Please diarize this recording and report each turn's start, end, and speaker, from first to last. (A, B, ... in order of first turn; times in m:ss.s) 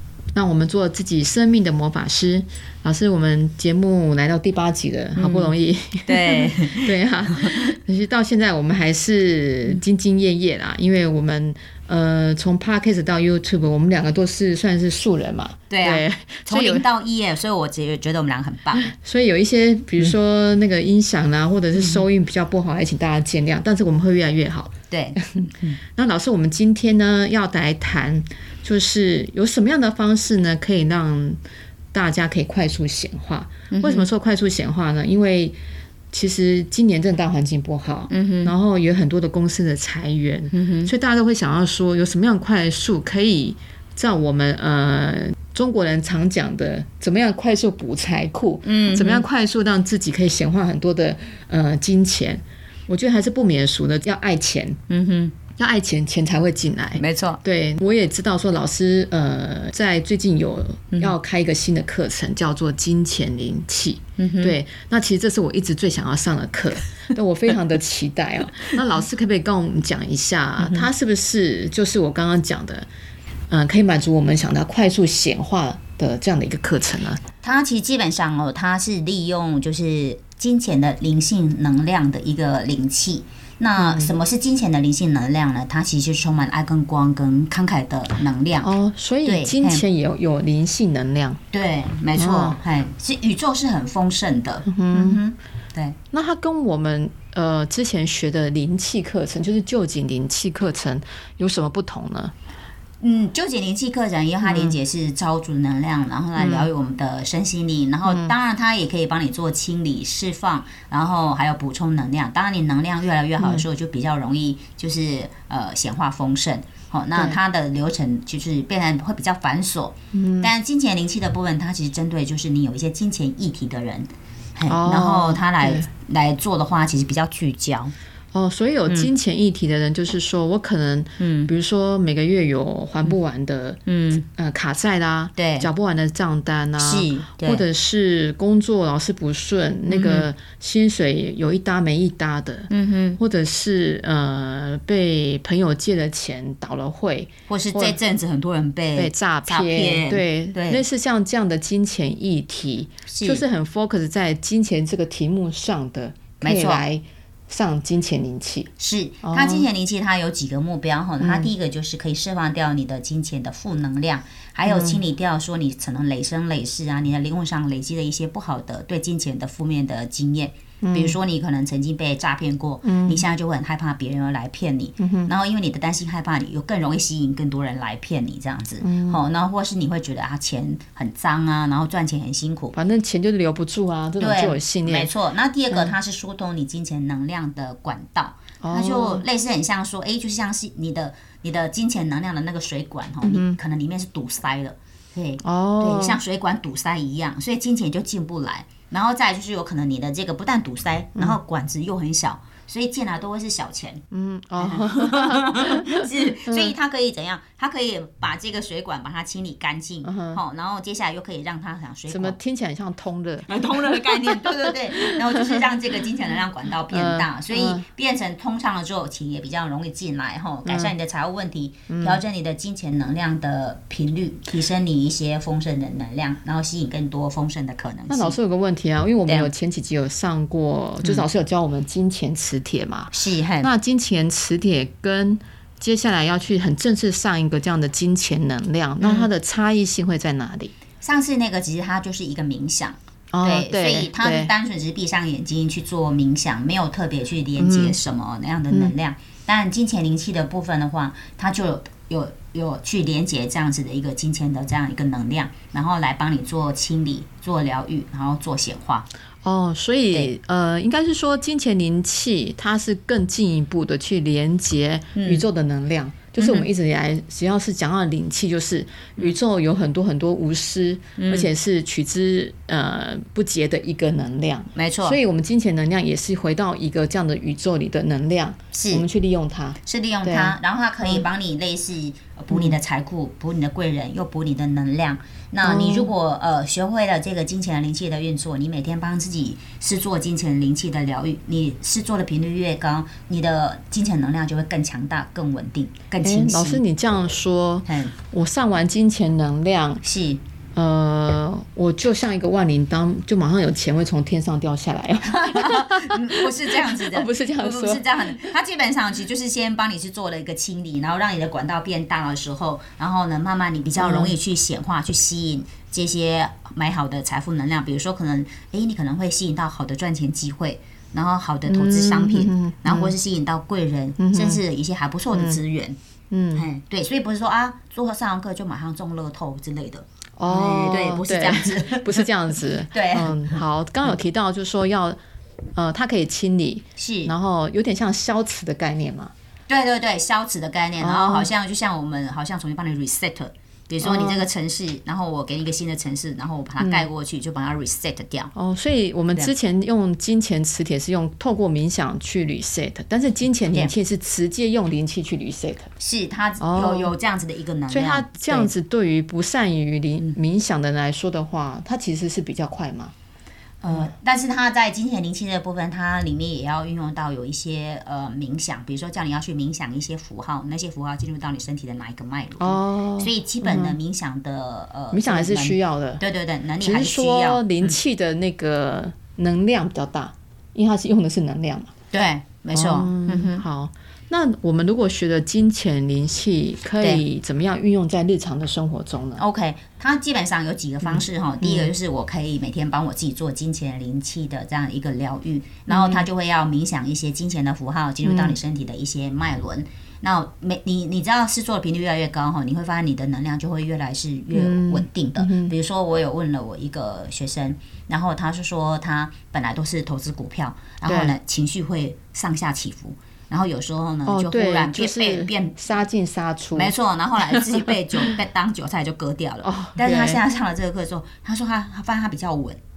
0:00.3-0:16.9 A
0:05.2-0:07.7 B
0:15.7-0:18.9 B
0:18.8-0:31.4 A
0:21.7-0:22.0 B
0:24.9-0:25.8 B
0:31.9-0:35.6 A
0:33.7-0:34.1 B
0:36.1-0:54.8 A
0:38.1-0:38.5 B
0:40.5-0:40.9 B
0:48.6-0:49.2 B
0:54.9-0:55.4 B
0:55.6-1:12.9 A
0:57.0-0:57.4 B
1:00.9-1:01.2 B
1:04.2-1:04.6 B
1:10.6-1:10.9 B
1:13.5-1:17.2 A
1:17.4-1:28.7 B
1:23.8-1:24.1 A
1:28.6-1:31.4 A
1:29.2-1:29.8 B
1:31.5-1:36.0 B
1:32.1-1:32.6 A
1:34.6-1:35.2 A
1:36.1-1:42.3 A
1:43.0-2:07.9 B
1:44.4-1:44.8 A
1:46.4-1:46.7 A
1:48.0-1:48.4 A
1:53.4-1:53.6 A
1:57.1-1:57.4 A
2:00.1-2:00.5 A
2:04.7-2:05.9 A
2:08.3-2:13.8 A
2:11.2-2:11.5 B
2:13.8-2:14.2 B
2:14.4-2:28.0 A
2:15.4-2:15.7 B
2:16.8-2:17.6 B
2:19.9-2:20.3 B
2:22.7-2:23.2 B
2:27.5-2:30.8 B
2:29.0-2:38.7 A
2:33.1-2:33.4 B
2:36.4-2:36.8 B
2:38.8-3:02.7 B
2:39.2-2:39.7 A
2:41.2-2:41.5 A
2:44.6-2:45.0 A
2:50.8-2:51.2 A
2:52.8-2:53.2 A
2:55.0-2:55.3 A
2:58.8-2:59.2 A
3:02.7-3:05.1 A
3:04.2-3:24.0 B
3:08.6-3:09.2 A
3:13.2-3:13.6 A
3:15.4-3:16.2 A
3:24.1-3:26.7 A
3:24.6-3:32.4 B
3:30.0-3:30.4 A
3:32.1-3:35.6 A
3:33.5-3:48.4 B
3:36.9-3:37.8 A
3:40.6-3:40.9 A
3:41.9-3:42.2 A
3:48.1-4:00.7 A
3:49.2-3:49.5 B
3:53.1-3:53.7 B
3:59.0-3:59.3 B
4:01.0-4:19.1 B
4:03.3-4:04.5 A
4:07.6-4:08.0 A
4:19.4-4:41.2 A
4:25.1-4:25.4 B
4:26.4-4:26.7 B
4:31.2-4:31.5 B
4:34.7-4:35.2 B
4:38.7-4:39.0 B
4:39.8-4:56.8 B
4:42.5-4:42.8 A
4:45.6-4:46.1 A
4:56.2-5:00.0 A
4:57.8-4:58.2 B
5:00.0-5:00.4 B
5:00.7-5:08.5 A
5:05.2-5:26.0 B
5:14.0-5:14.4 A
5:21.7-5:23.1 A
5:24.2-5:24.6 A
5:25.3-5:25.6 A
5:26.3-5:26.6 A
5:26.5-5:32.3 B
5:30.4-5:35.2 A
5:32.9-5:33.6 B
5:35.7-5:39.3 A
5:37.0-5:37.3 B
5:39.7-5:48.5 B
5:41.0-5:41.5 A
5:44.0-5:44.5 A
5:46.8-5:47.1 A
5:48.5-5:55.9 A
5:56.0-5:58.7 B
5:56.6-5:57.1 A
5:57.9-6:03.1 A
6:03.8-6:18.0 B
6:12.6-6:14.0 A
6:15.1-6:16.2 A
6:16.8-6:21.9 A
6:22.1-6:23.6 B
6:22.7-6:29.4 A
6:29.4-6:55.8 B
6:31.0-6:31.9 A
6:35.9-6:36.3 A
6:38.2-6:38.6 A
6:44.5-6:45.7 A
6:51.0-6:51.4 A
6:54.2-6:56.9 A
6:56.7-7:02.8 B
6:59.6-7:00.4 A